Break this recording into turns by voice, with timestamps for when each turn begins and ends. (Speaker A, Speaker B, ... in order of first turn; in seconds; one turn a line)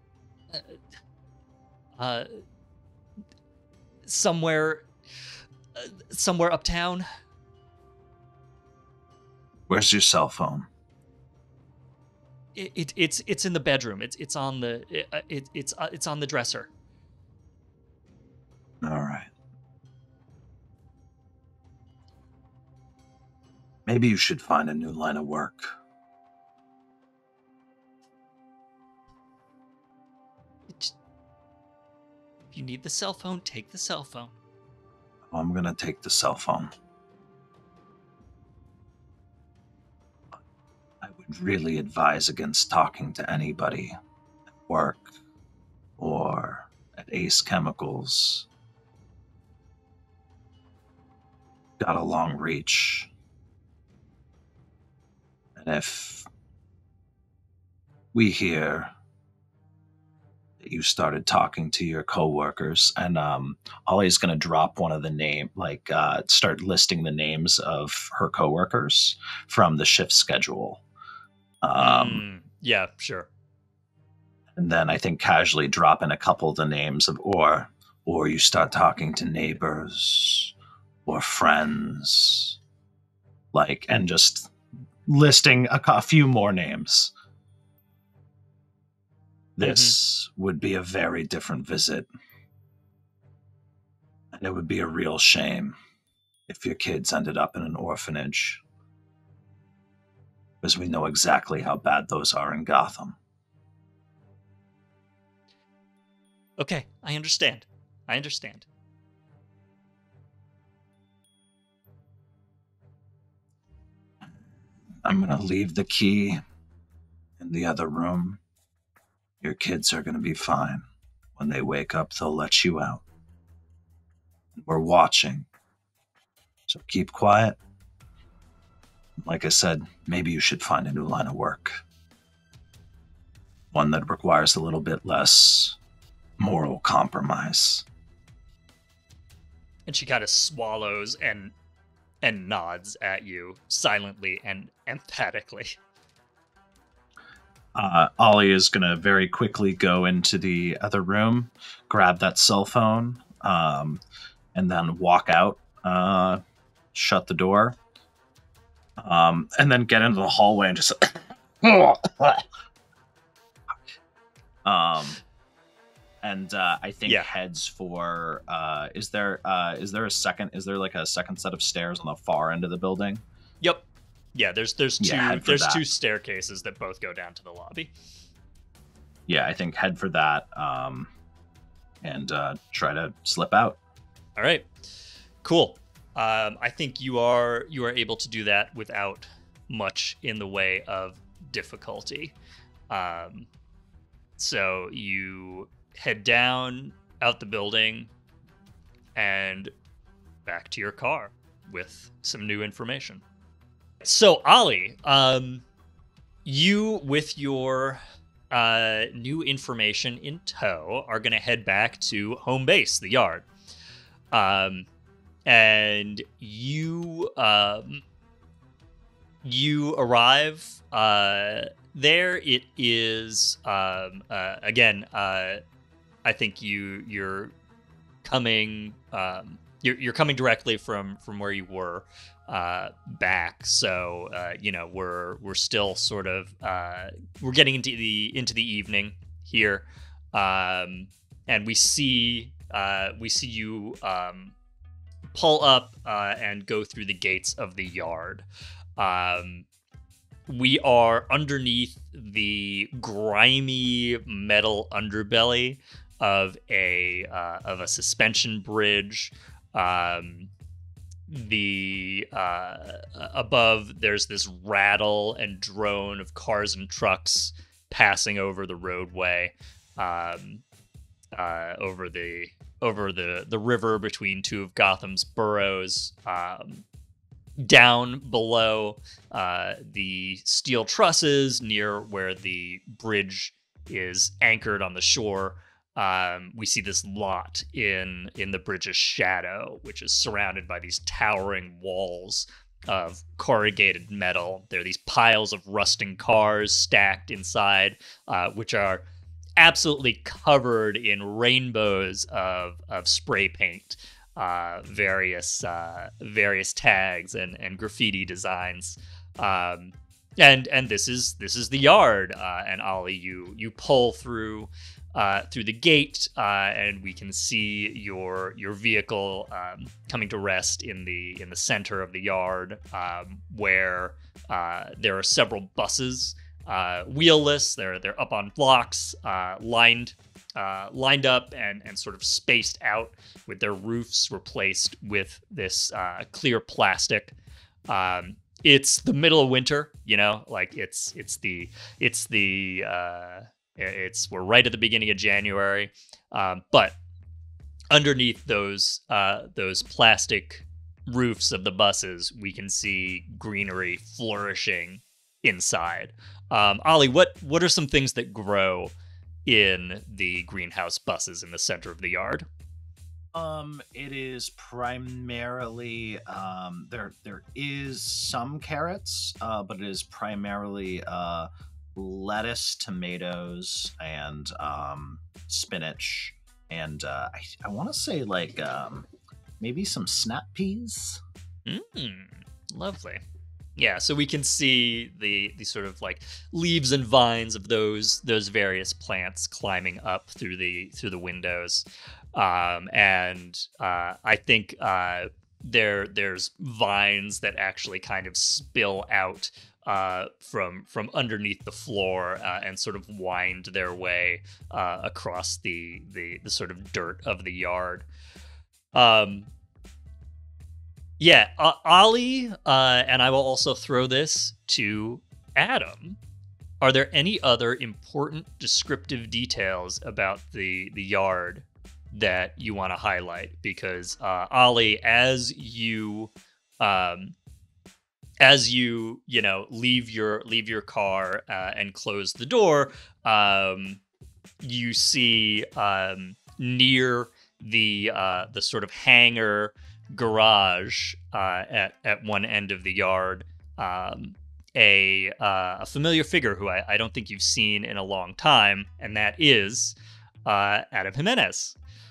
Speaker A: 0.5-0.8
Speaker A: 2.0-2.3
Speaker A: 4.1-4.9
Speaker A: 5.7-7.0
Speaker B: 9.7-10.7
Speaker A: 12.5-16.7
Speaker B: 18.8-19.3
Speaker B: 23.9-25.7
Speaker A: 32.5-34.3
Speaker B: 35.3-36.7
Speaker B: 41.0-43.9
Speaker B: 44.7-45.1
Speaker B: 46.0-48.5
Speaker B: 51.8-53.1
Speaker B: 55.6-56.3
Speaker B: 58.1-58.9
Speaker B: 60.6-70.8
Speaker B: 71.6-72.2
Speaker A: 71.8-73.3
Speaker B: 74.5-80.5
Speaker B: 81.0-82.6
Speaker B: 83.5-84.5
Speaker B: 85.0-87.1
Speaker B: 89.6-92.1
Speaker A: 89.6-90.0
Speaker B: 94.3-95.7
Speaker B: 96.5-98.6
Speaker B: 100.6-103.2
Speaker A: 106.6-108.7
Speaker B: 115.0-116.4
Speaker B: 117.4-118.4
Speaker B: 119.4-120.8
Speaker B: 121.4-123.0
Speaker B: 124.6-125.5
Speaker B: 126.7-127.6
Speaker B: 129.2-131.8
Speaker B: 133.7-135.8
Speaker B: 136.4-137.8
Speaker A: 139.9-141.5
Speaker A: 142.2-145.8
Speaker B: 147.7-154.0
Speaker B: 154.5-156.4
Speaker B: 156.9-157.8
Speaker B: 159.0-162.5
Speaker B: 164.6-165.2
Speaker B: 166.2-173.2
Speaker A: 173.6-177.9
Speaker B: 175.0-175.8
Speaker B: 179.3-181.1
Speaker B: 182.0-183.8
Speaker A: 184.4-184.7
Speaker A: 185.4-192.3
Speaker A: 192.9-193.5
Speaker A: 194.4-198.1
Speaker A: 199.2-199.7
Speaker A: 200.4-203.2
Speaker A: 204.0-205.6
Speaker A: 206.4-213.5
Speaker A: 214.3-214.9
Speaker A: 215.4-218.0
Speaker A: 219.4-225.6
Speaker A: 226.2-227.5
Speaker A: 228.2-244.5
Speaker A: 245.3-248.4
Speaker A: 249.0-249.7
Speaker A: 250.5-260.5
Speaker A: 261.3-270.6
Speaker A: 271.3-276.8
Speaker A: 277.6-299.0
Speaker A: 299.6-337.3
Speaker A: 337.9-346.9
Speaker A: 347.9-358.9
Speaker A: 359.4-362.5
Speaker B: 363.3-379.1
Speaker B: 379.6-381.2
Speaker A: 381.6-383.2
Speaker A: 383.8-408.1
Speaker A: 408.9-409.5
Speaker A: 411.2-416.2
Speaker A: 416.8-427.3
Speaker A: 428.4-434.0
Speaker A: 434.6-451.8